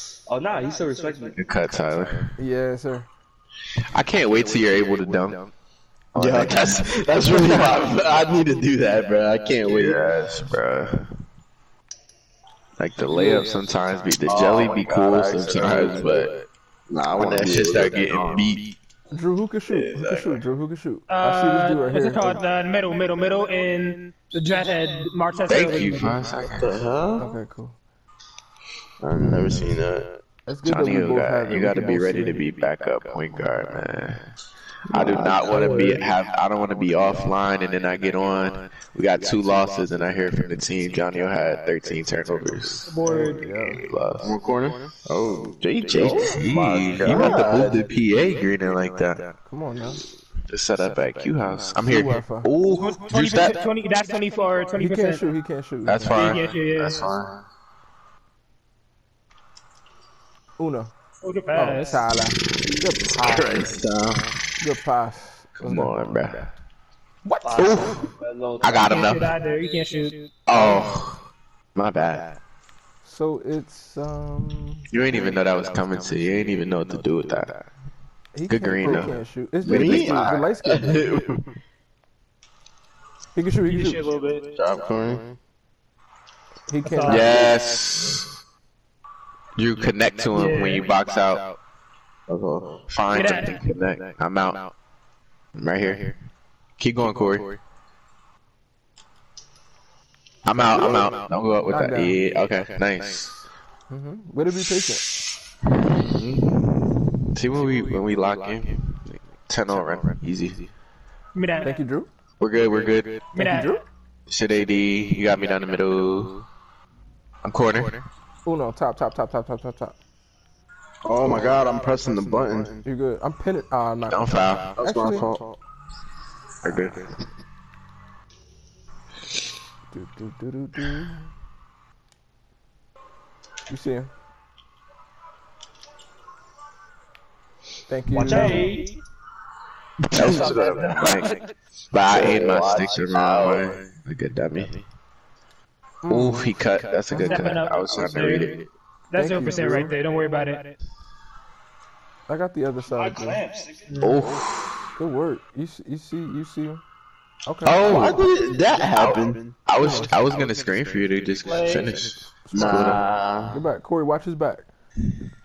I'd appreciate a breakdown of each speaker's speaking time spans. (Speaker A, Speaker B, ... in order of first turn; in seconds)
Speaker A: 0.2-1.4, 67.4-69.0, 138.1-138.9, 152.8-154.1
Speaker B: 1.3-2.3, 3.9-5.5, 6.1-7.9, 9.6-11.0, 12.8-16.3, 17.2-18.7, 25.5-26.7, 30.6-34.3, 34.9-42.9, 43.8-44.3, 45.6-49.3, 50.5-53.6, 55.9-56.5, 65.6-66.5, 67.6-68.0, 68.6-69.3, 70.5-71.2, 71.7-72.3, 74.9-77.6, 78.5-80.3, 87.0-88.2, 89.5-91.6, 92.9-94.7, 95.6-96.1, 96.8-97.6, 100.5-103.4, 107.3-108.8, 109.5-110.7, 112.4-113.2, 114.3-116.4, 117.4-118.1, 124.1-124.7, 126.6-127.1, 140.1-141.3, 141.9-144.8, 146.1-148.7, 154.0-154.9, 157.6-163.0
Speaker C: 2.4-3.1, 13.1-13.4, 19.1-22.4, 27.2-27.8, 30.4-32.5, 43.0-43.8, 45.9-46.4, 49.4-50.0, 51.8-52.5, 54.8-56.3, 60.6-60.9, 61.5-63.8, 64.6-66.1, 67.2-67.9, 73.0-74.9, 78.3-81.0, 83.3-84.0, 86.7-87.3, 101.7-102.2, 103.9-105.1, 111.6-112.1, 113.3-113.8, 118.4-120.0, 122.8-125.3, 129.9-131.3, 133.7-134.1, 137.9-138.7, 146.0-146.5, 147.1-147.6, 149.1-149.9, 152.3-153.4, 154.9-156.8, 157.4-157.8, 159.7-160.1, 162.5-164.7
Speaker D: 6.2-10.2, 14.2-18.5, 19.7-20.4, 26.6-27.4, 29.0-30.2, 34.9-35.9, 42.3-43.3, 44.2-47.8, 56.7-57.4, 63.1-64.3, 79.6-81.4, 84.5-85.4, 92.3-92.8, 100.7-101.1, 121.0-122.8, 124.8-125.6, 142.1-143.8, 157.8-159.6, 162.5-163.6
Speaker E: 21.1-26.3, 42.8-43.4, 52.8-55.2, 56.1-57.1, 61.2-62.0, 68.8-70.3, 83.7-84.5, 86.8-87.3, 90.3-90.9, 93.1-93.6, 111.3-111.7, 113.3-113.8, 138.4-138.9, 140.2-141.4, 147.2-150.8, 153.9-154.2, 161.4-161.9